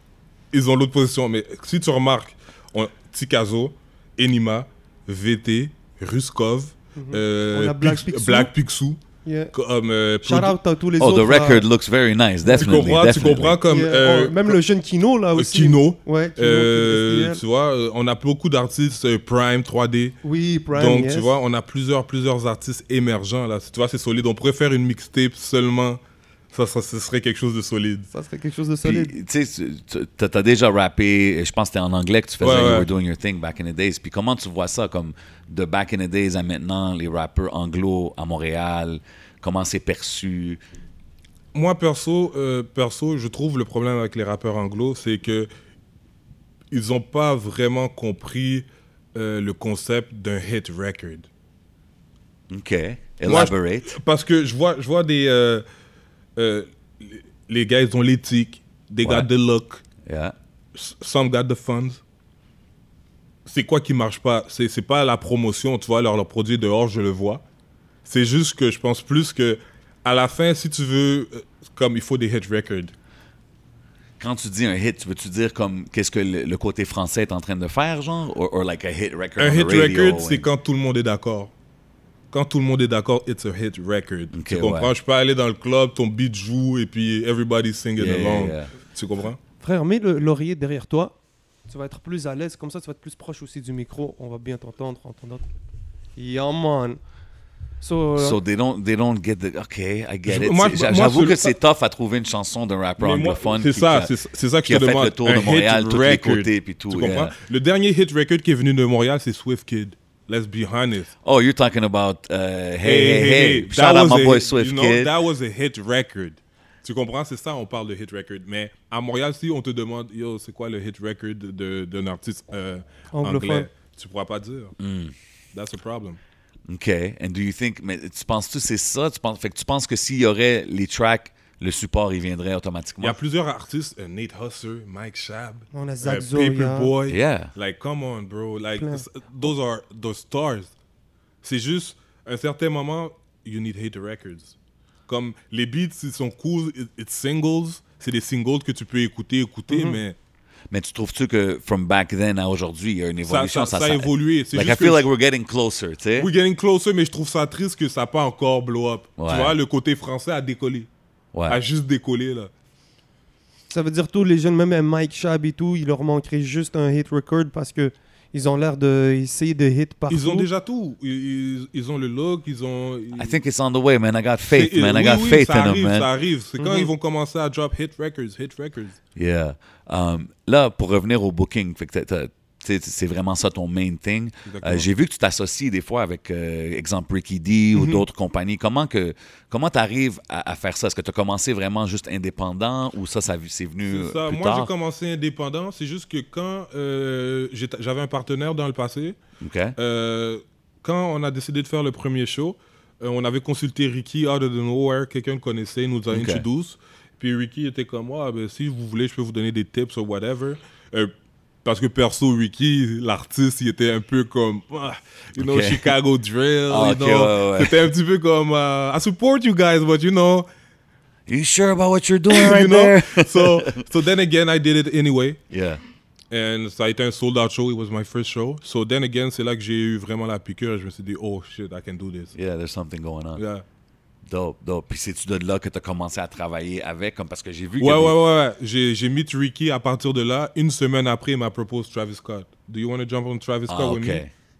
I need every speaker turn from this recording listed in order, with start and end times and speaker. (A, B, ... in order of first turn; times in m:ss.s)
0:00.5-0:09.0 A
0:07.0-0:08.5 B
0:09.2-0:09.5 B
0:09.5-0:10.6 A
0:10.2-0:11.6 B
0:11.0-0:13.6 C
0:12.4-0:12.8 B
0:12.6-0:14.6 A
0:13.6-0:17.4 B
0:15.3-0:20.2 A
0:20.2-0:21.3 B
0:20.7-0:26.0 A
0:26.5-0:28.1 A
0:28.1-0:29.1 B
0:28.8-0:40.6 C
0:32.4-0:32.9 A
0:41.5-0:45.5 A
0:46.7-0:51.3 A
0:52.5-0:54.0 C
0:53.2-0:55.6 A
0:56.4-0:59.8 A
1:00.0-1:00.3 C
1:00.7-1:02.0 A
1:03.4-1:07.4 A
1:08.0-1:12.9 A
1:14.2-1:20.5 C
1:19.4-1:21.5 A
1:22.3-1:29.4 A
1:24.3-1:24.9 C
1:28.0-1:28.7 C
1:29.6-1:31.1 B
1:31.7-1:35.4 B
1:36.2-1:37.0 B
1:37.8-1:38.4 B
1:38.2-1:44.1 C
1:40.2-1:41.5 A
1:43.0-1:51.1 A
1:44.6-1:47.3 C
1:51.2-1:55.1 C
1:52.8-2:04.7 A
2:03.1-2:03.7 B
2:04.8-2:05.1 C
2:05.5-2:06.2 A
2:06.7-2:13.2 C
2:13.0-2:20.7 A
2:15.7-2:16.9 B
2:17.1-2:17.5 C
2:18.8-2:19.0 B
2:21.4-2:24.5 A
2:25.1-2:30.2 A
2:29.7-2:30.0 B
2:30.7-2:36.3 C
2:33.2-2:35.1 A
2:36.2-2:40.9 A
2:39.2-2:39.6 C
2:41.3-2:41.6 C
2:41.5-2:42.5 A
2:43.7-2:50.5 B
2:50.1-2:53.4 A
2:53.1-2:56.1 C
2:54.5-2:59.0 A
2:56.6-2:56.9 B
2:59.2-3:14.7 C
3:04.5-3:04.9 A
3:07.7-3:08.0 A
3:13.9-3:19.2 A
3:19.4-3:19.8 C
3:19.8-3:31.1 A
3:26.1-3:26.4 C
3:31.6-3:40.4 A
3:35.4-3:35.9 C
3:36.7-3:37.8 C
3:41.3-3:43.8 C
3:42.3-3:45.4 A
3:45.5-3:45.8 C
3:46.3-3:52.3 A
3:52.3-3:53.4 C
3:53.4-3:53.6 A
3:54.2-3:58.2 C
3:57.8-4:04.2 A
4:03.7-4:04.3 C